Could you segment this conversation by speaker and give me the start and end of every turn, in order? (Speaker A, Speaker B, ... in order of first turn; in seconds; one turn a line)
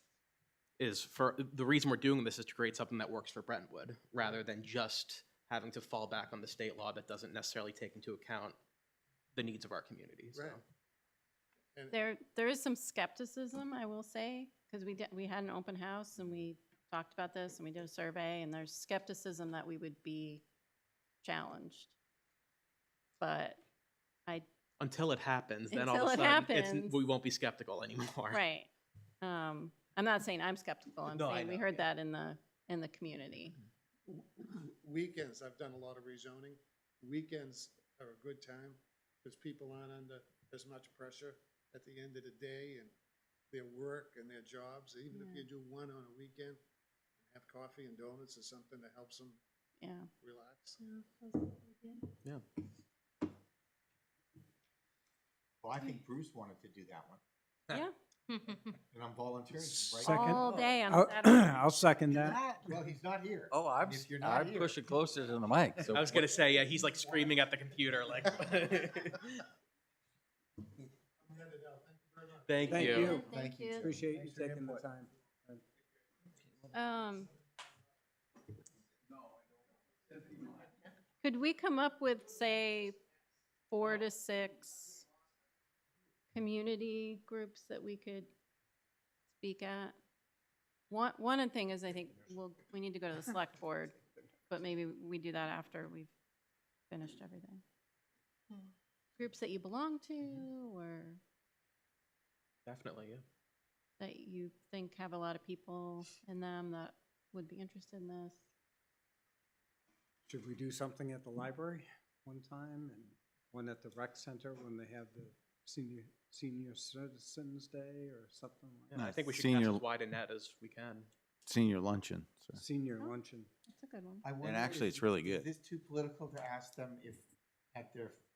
Speaker A: 0.8-8.6
Speaker A: 9.3-10.6
Speaker B: 10.3-10.6
Speaker C: 11.9-20.4
Speaker C: 21.2-21.9
Speaker C: 23.2-23.6
Speaker A: 24.8-28.4
Speaker C: 25.7-27.0
Speaker C: 28.3-28.7
Speaker C: 29.2-33.5
Speaker A: 31.1-31.9
Speaker B: 34.1-42.9
Speaker B: 43.5-46.6
Speaker C: 45.1-45.4
Speaker B: 47.2-49.4
Speaker C: 49.8-50.1
Speaker B: 50.2-51.6
Speaker D: 55.6-57.2
Speaker D: 58.9-60.5
Speaker E: 59.7-62.4
Speaker C: 60.0-61.5
Speaker D: 62.1-65.2
Speaker F: 63.5-66.0
Speaker A: 65.9-69.4
Speaker B: 71.2-73.0
Speaker A: 72.5-73.2
Speaker E: 72.7-75.6
Speaker C: 72.9-73.8
Speaker D: 73.2-74.8
Speaker C: 76.7-77.3
Speaker C: 81.2-83.0
Speaker C: 83.7-85.0
Speaker C: 86.3-88.3
Speaker C: 89.4-90.0
Speaker C: 90.9-94.0
Speaker C: 94.5-96.1
Speaker C: 96.9-97.6
Speaker C: 99.2-101.2
Speaker A: 102.6-103.2
Speaker C: 104.0-108.4
Speaker E: 110.3-119.0
Speaker A: 118.9-121.1
Speaker F: 118.9-119.8
Speaker F: 121.5-122.6
Speaker E: 122.5-123.5
Speaker C: 123.7-124.2
Speaker D: 124.2-128.2
Speaker F: 124.4-125.5